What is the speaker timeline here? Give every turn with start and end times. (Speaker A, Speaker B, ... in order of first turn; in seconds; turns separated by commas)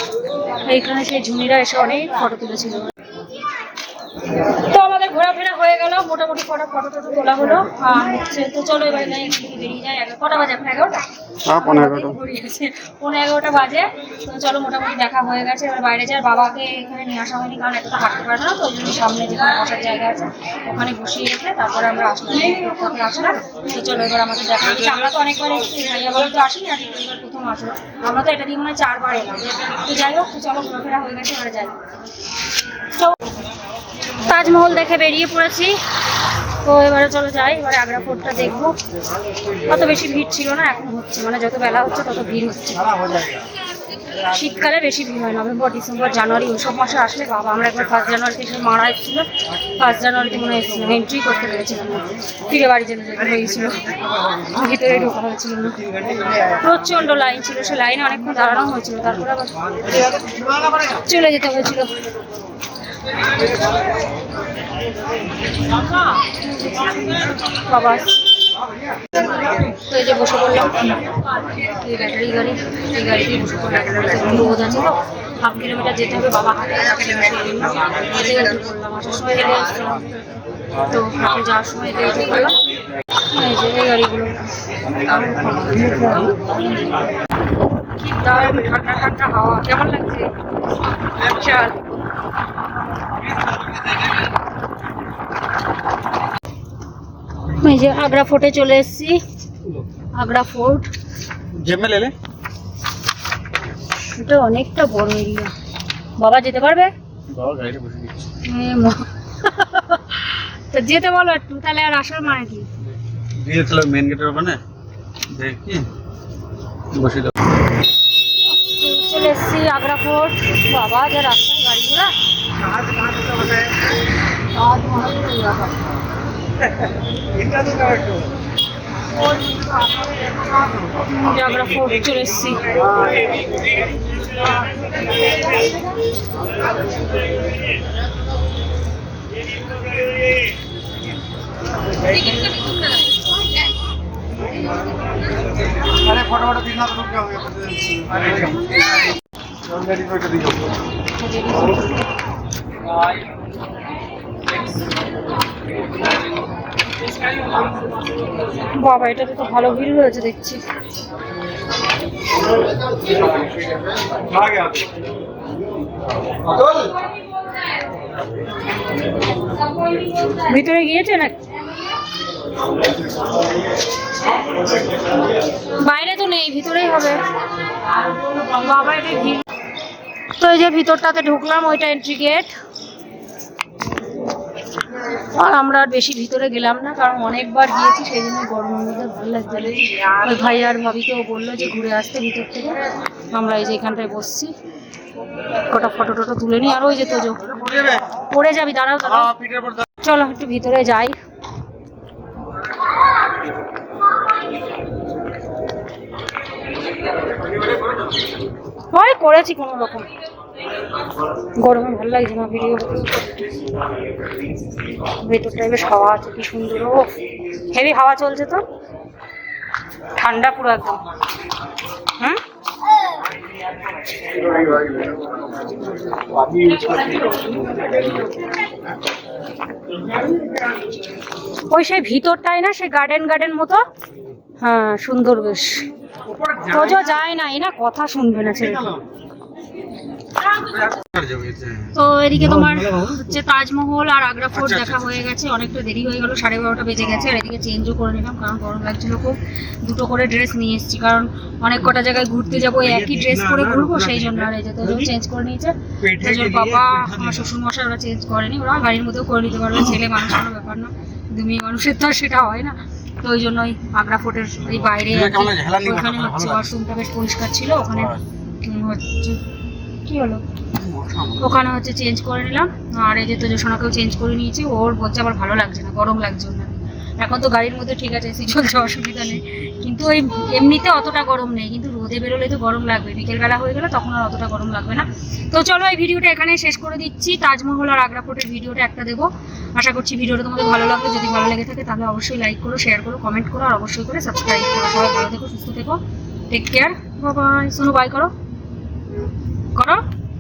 Speaker A: 0.6-2.9, Speaker A: 4.5-31.8, Speaker B: 11.5-12.2, Speaker A: 34.2-35.8, Speaker A: 36.6-38.8, Speaker A: 39.6-43.1, Speaker B: 43.1-43.4, Speaker A: 44.2-60.2, Speaker A: 60.8-62.0, Speaker A: 67.1-68.2, Speaker A: 69.5-80.1, Speaker A: 80.8-82.6, Speaker A: 83.2-84.4, Speaker A: 85.4-86.6, Speaker A: 88.0-90.3, Speaker A: 91.1-91.8, Speaker A: 97.5-99.2, Speaker A: 100.1-100.9, Speaker B: 101.5-102.1, Speaker A: 104.1-105.5, Speaker A: 106.2-106.9, Speaker B: 107.3-108.2, Speaker A: 108.4-112.7, Speaker B: 113.3-114.6, Speaker B: 115.3-115.9, Speaker B: 116.9-117.3, Speaker A: 118.5-122.1, Speaker A: 124.5-125.7, Speaker B: 127.5-128.1, Speaker A: 129.5-130.1, Speaker A: 130.7-132.8, Speaker A: 142.0-143.2, Speaker B: 145.9-148.8, Speaker B: 149.7-150.6, Speaker A: 151.1-151.9, Speaker A: 158.6-160.6, Speaker B: 164.1-164.8, Speaker B: 166.6-166.9, Speaker A: 170.2-171.4, Speaker A: 175.6-177.2, Speaker A: 178.1-179.4, Speaker A: 180.4-182.5, Speaker A: 185.2-194.5, Speaker A: 195.7-199.3, Speaker B: 197.6-198.0, Speaker B: 199.2-199.9, Speaker A: 200.0-201.2, Speaker A: 208.9-210.1, Speaker A: 211.6-213.5, Speaker A: 215.2-218.6, Speaker A: 220.2-221.0, Speaker B: 226.5-227.2, Speaker A: 231.7-233.8, Speaker A: 234.6-235.8, Speaker B: 236.3-237.0, Speaker A: 236.7-239.0, Speaker B: 238.7-239.0, Speaker B: 240.6-241.9, Speaker A: 241.9-269.4, Speaker B: 244.6-245.1, Speaker B: 252.7-255.1, Speaker B: 256.0-257.4, Speaker B: 264.7-266.7, Speaker B: 267.9-268.2, Speaker A: 270.0-270.4, Speaker B: 270.8-271.6, Speaker A: 271.4-298.3, Speaker A: 299.8-300.0